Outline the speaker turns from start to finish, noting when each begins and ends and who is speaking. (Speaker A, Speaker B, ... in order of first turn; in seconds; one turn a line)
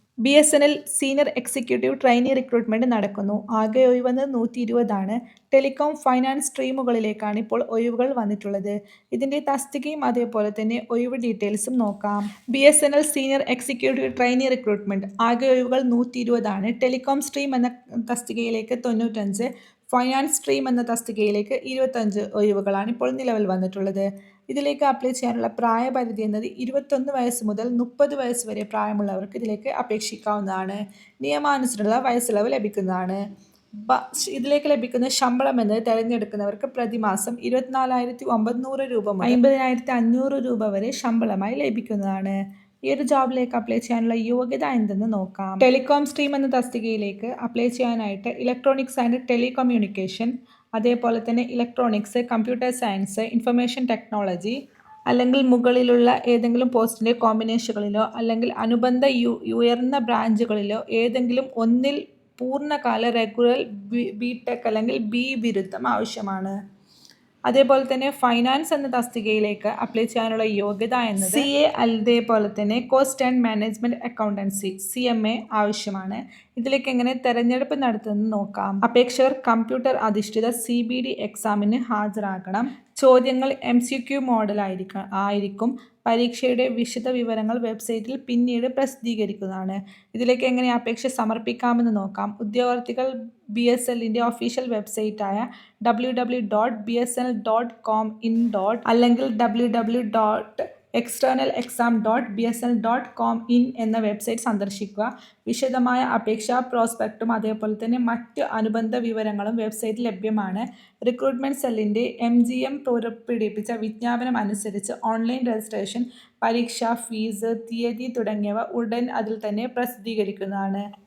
Speaker A: 0.2-33.2
Speaker A: 33.8-54.6
Speaker A: 55.1-66.5
Speaker A: 67.5-120.8